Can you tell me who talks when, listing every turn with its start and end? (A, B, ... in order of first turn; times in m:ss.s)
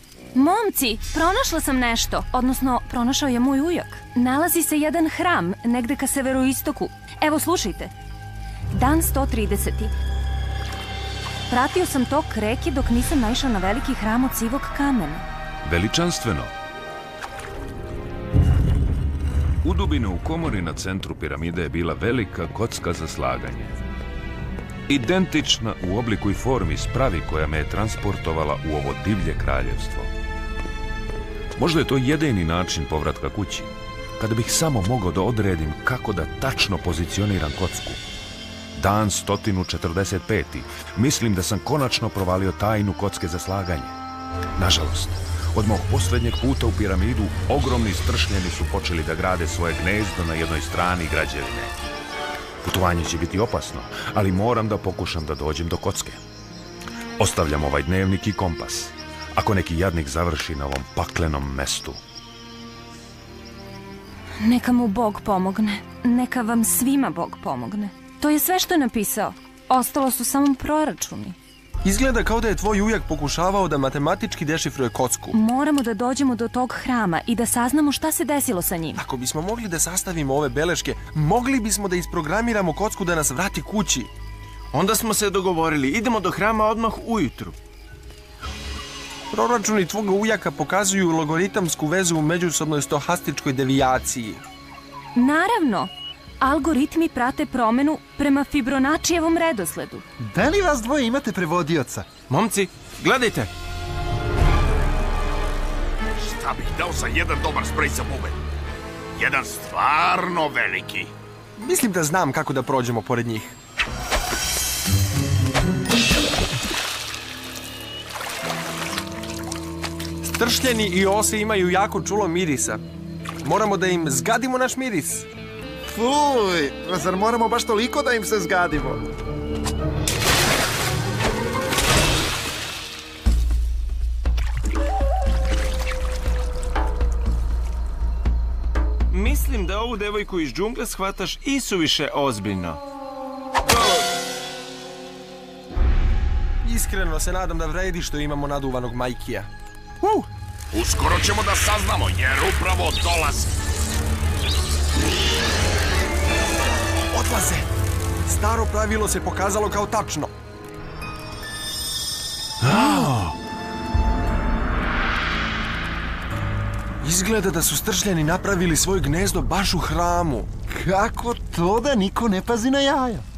0:00.3-0:07.9 A
0:08.7-0:09.9 A
0:11.5-0:15.2 A
0:15.6-0:16.5 B
0:19.6-0:23.8 B
0:24.9-0:30.1 B
0:31.6-0:38.0 B
0:38.8-0:44.0 B
0:44.6-0:51.7 B
0:52.6-0:56.2 B
0:57.2-1:02.0 B
1:04.4-1:11.4 A
1:11.8-1:15.4 C
1:15.3-1:19.0 A
1:19.0-1:24.1 C
1:24.7-1:27.6 D
1:29.3-1:34.4 C
1:35.2-1:40.0 A
1:40.2-1:42.1 E
1:42.3-1:43.5 D
1:46.2-1:48.4 F
1:49.2-1:51.1 F
1:51.6-1:53.6 C
2:00.3-2:02.8 C
2:03.4-2:05.3 C
2:05.9-2:09.0 E
2:19.1-2:22.8 D
2:26.6-2:29.5 C
2:30.0-2:30.3 C
2:30.7-2:33.5 F
2:37.1-2:37.7 C
2:38.3-2:40.3 C
2:47.0-2:50.5 C
2:50.7-2:53.2 E